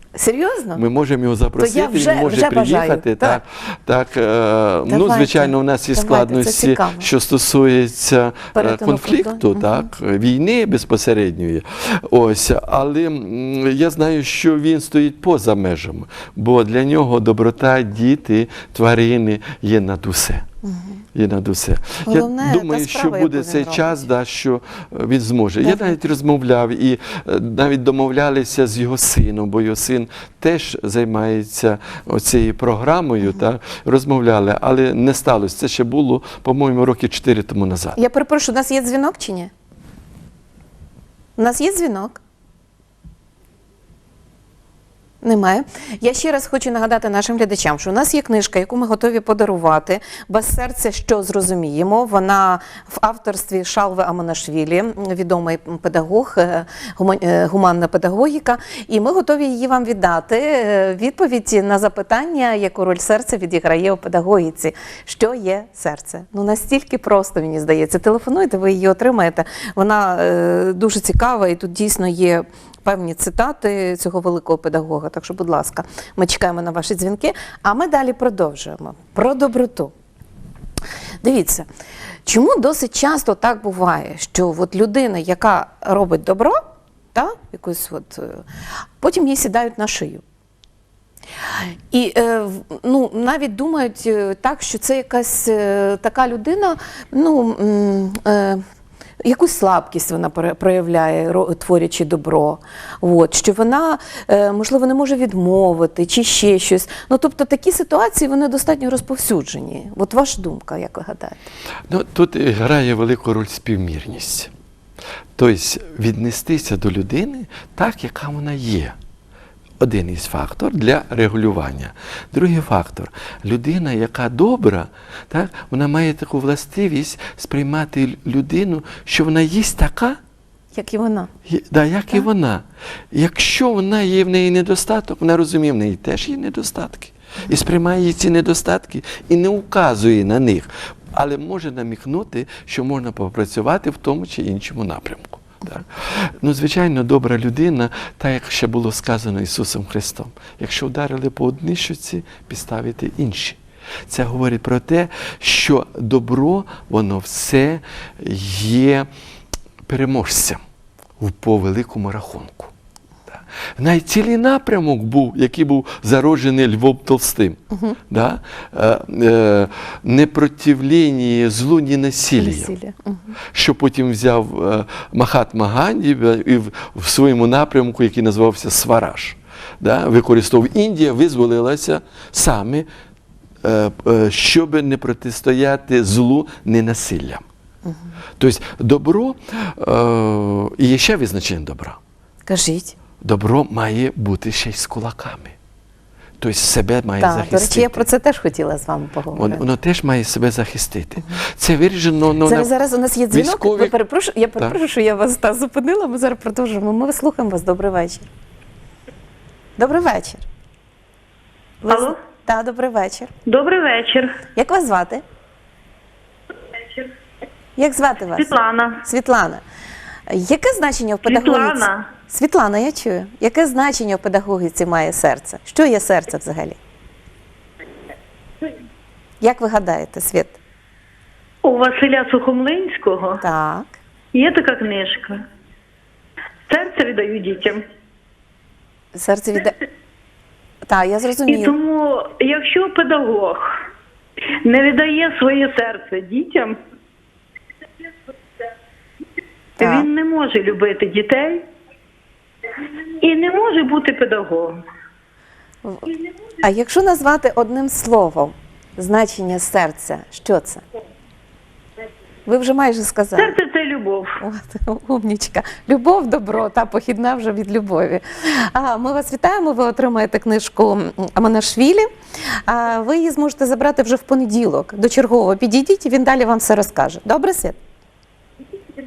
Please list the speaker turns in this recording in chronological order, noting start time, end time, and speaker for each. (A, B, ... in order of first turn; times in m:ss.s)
0:00.2-0:00.8 A
0:00.8-0:20.5 B
0:01.6-0:03.4 A
0:04.9-0:07.1 A
0:08.6-0:09.9 A
0:20.6-0:21.0 A
0:21.2-0:38.0 B
0:22.1-0:24.1 A
0:25.6-0:26.0 A
0:38.0-0:39.5 A
0:41.4-0:42.2 A
0:45.2-1:19.9 A
1:21.2-1:21.7 A
1:22.3-1:26.6 A
1:27.1-1:28.4 A
1:29.0-1:30.2 A
1:31.9-1:38.6 A
1:39.2-1:51.5 A
1:51.9-1:54.5 B
1:55.4-1:59.0 B
1:59.8-2:10.2 B
2:10.7-2:11.3 A
2:11.5-2:39.1 B
2:39.9-2:40.6 B
2:41.2-2:42.7 B
2:43.3-2:52.7 B
2:47.7-2:48.0 A
2:52.4-2:53.3 A
2:53.5-3:02.9 B
3:03.6-3:07.4 B
3:07.9-3:08.1 A
3:08.4-3:12.0 B
3:12.5-3:13.0 A
3:13.2-3:15.6 B
3:16.4-3:18.1 B
3:17.2-3:19.6 A
3:19.3-3:22.7 B
3:22.4-3:28.3 A
3:23.3-3:24.0 B
3:29.8-3:30.4 A
3:31.8-3:33.3 A
3:31.9-3:32.2 C
3:33.5-3:34.4 C
3:34.6-3:35.2 A
3:37.8-3:39.6 A
3:38.4-3:39.0 C
3:40.3-3:46.8 A
3:41.2-3:42.1 C
3:49.4-3:50.6 A
3:51.6-3:53.4 C
3:53.4-3:54.0 A
3:54.3-3:55.4 C
3:56.7-3:57.8 C
3:59.1-3:59.8 A
4:00.9-4:01.8 A
4:01.5-4:03.7 C
4:04.6-4:06.8 C
4:09.8-4:11.7 C
4:09.8-4:10.1 A
4:13.2-4:14.8 C
4:16.6-4:20.8 A
4:22.5-4:23.6 A
4:23.4-4:24.4 C
4:24.4-4:32.1 A
4:32.7-4:37.8 A